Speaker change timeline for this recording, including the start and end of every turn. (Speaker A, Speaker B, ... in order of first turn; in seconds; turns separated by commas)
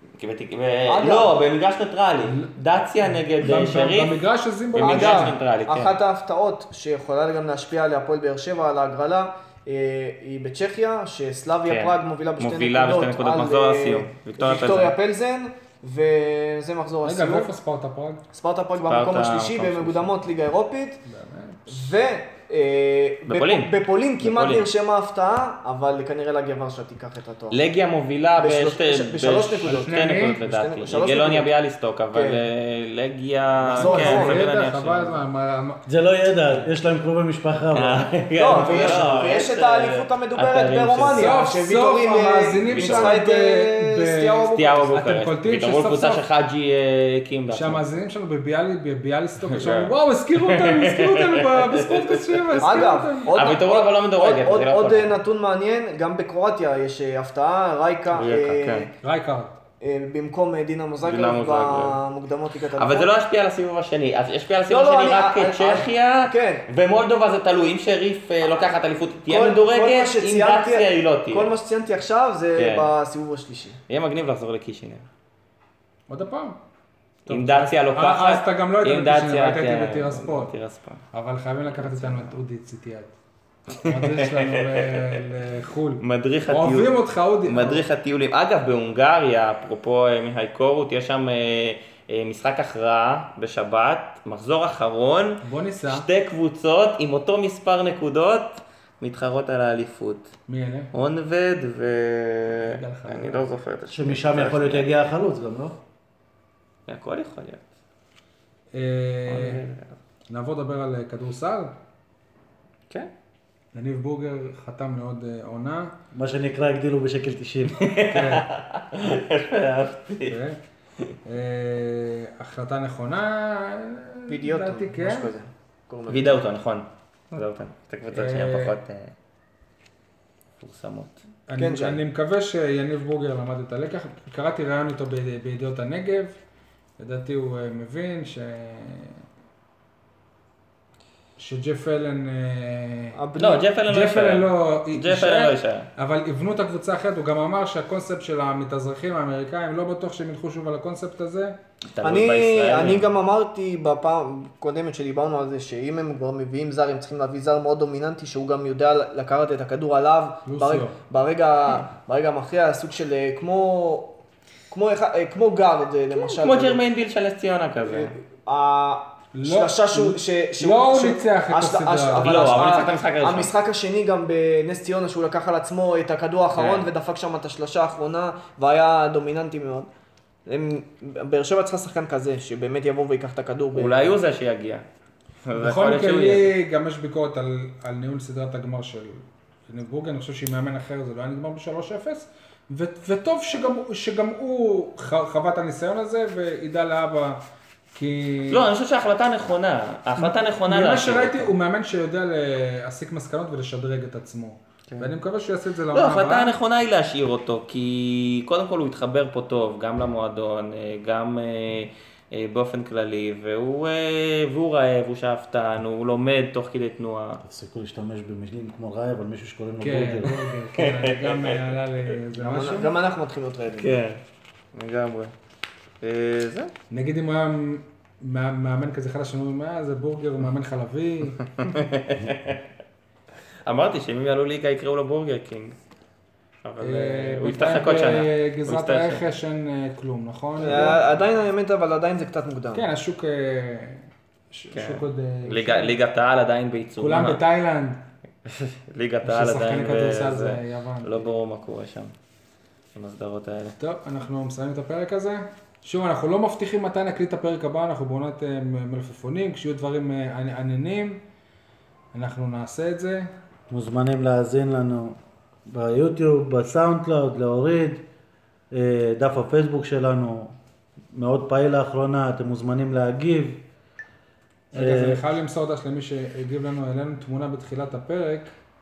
Speaker A: 0.2-4.2, Speaker B: 0.9-1.3, Speaker C: 3.4-5.3, Speaker A: 4.7-6.0, Speaker B: 4.8-17.5, Speaker A: 11.6-14.9, Speaker C: 17.0-18.2, Speaker B: 18.3-21.0, Speaker A: 18.8-20.2, Speaker C: 21.1-21.9, Speaker B: 21.7-27.6, Speaker A: 23.2-24.7, Speaker A: 27.5-35.2, Speaker B: 28.4-31.5, Speaker C: 29.8-30.4, Speaker B: 32.1-32.4, Speaker B: 33.6-34.4, Speaker C: 33.7-35.8, Speaker D: 35.9-38.1, Speaker A: 37.7-41.5, Speaker B: 38.4-45.0, Speaker C: 38.5-39.2, Speaker C: 41.0-46.2, Speaker A: 42.6-43.2, Speaker A: 44.5-47.8, Speaker C: 47.5-53.5, Speaker A: 49.4-55.1, Speaker B: 52.6-58.9, Speaker A: 58.1-58.9, Speaker C: 59.0-59.5, Speaker B: 59.8-63.1, Speaker A: 61.0-62.0, Speaker A: 62.6-71.5, Speaker B: 64.7-66.6, Speaker B: 69.2-73.8, Speaker A: 72.5-72.9, Speaker A: 73.9-75.0, Speaker C: 76.1-76.6, Speaker C: 77.2-80.5, Speaker A: 77.2-81.0, Speaker C: 81.1-83.1, Speaker A: 81.7-82.4, Speaker A: 83.7-85.2, Speaker C: 83.7-87.8, Speaker A: 86.0-86.9, Speaker A: 87.5-100.3, Speaker C: 95.4-96.0, Speaker C: 100.5-100.9, Speaker A: 100.9-104.9, Speaker C: 102.6-103.4, Speaker D: 103.9-105.8, Speaker A: 106.9-107.6, Speaker C: 108.7-109.6, Speaker A: 109.3-110.0, Speaker C: 110.3-111.7, Speaker C: 113.7-115.9, Speaker D: 116.1-117.8, Speaker A: 117.7-120.4, Speaker C: 118.1-118.5, Speaker C: 120.3-120.6, Speaker C: 121.2-125.3, Speaker B: 124.3-126.4, Speaker A: 126.1-129.1, Speaker C: 128.1-128.7, Speaker A: 130.6-131.2, Speaker C: 131.5-136.3, Speaker B: 131.6-132.0, Speaker C: 137.0-139.2, Speaker C: 141.4-143.2, Speaker B: 143.1-143.6, Speaker A: 143.3-145.9, Speaker C: 143.9-151.5, Speaker A: 151.9-153.1, Speaker B: 152.0-164.1, Speaker C: 160.4-161.0, Speaker B: 164.7-166.8, Speaker A: 166.1-168.1, Speaker B: 167.8-179.9, Speaker C: 169.3-172.8, Speaker A: 172.1-173.5, Speaker A: 176.5-176.9, Speaker B: 180.4-184.1, Speaker A: 183.7-184.8, Speaker A: 185.4-186.5, Speaker C: 185.6-197.4, Speaker C: 197.9-198.6, Speaker A: 198.5-201.5, Speaker C: 200.2-206.5, Speaker A: 205.9-217.4, Speaker D: 217.4-220.4, Speaker C: 219.8-222.9, Speaker A: 220.7-221.7, Speaker B: 222.3-223.9, Speaker A: 223.8-224.2, Speaker A: 224.7-225.3, Speaker A: 226.0-226.7, Speaker C: 226.9-231.4, Speaker A: 231.4-232.6, Speaker A: 233.7-235.8, Speaker A: 236.6-239.2, Speaker C: 236.8-241.2, Speaker B: 240.6-242.8, Speaker C: 242.7-245.9, Speaker A: 244.7-247.4, Speaker C: 247.0-248.0, Speaker A: 248.4-252.1, Speaker C: 249.2-251.3, Speaker A: 252.9-253.8, Speaker C: 253.8-261.2, Speaker C: 262.1-263.3, Speaker D: 263.7-265.1, Speaker D: 265.7-268.0, Speaker D: 268.7-270.5, Speaker D: 271.1-273.6, Speaker C: 274.7-278.5, Speaker D: 274.7-275.2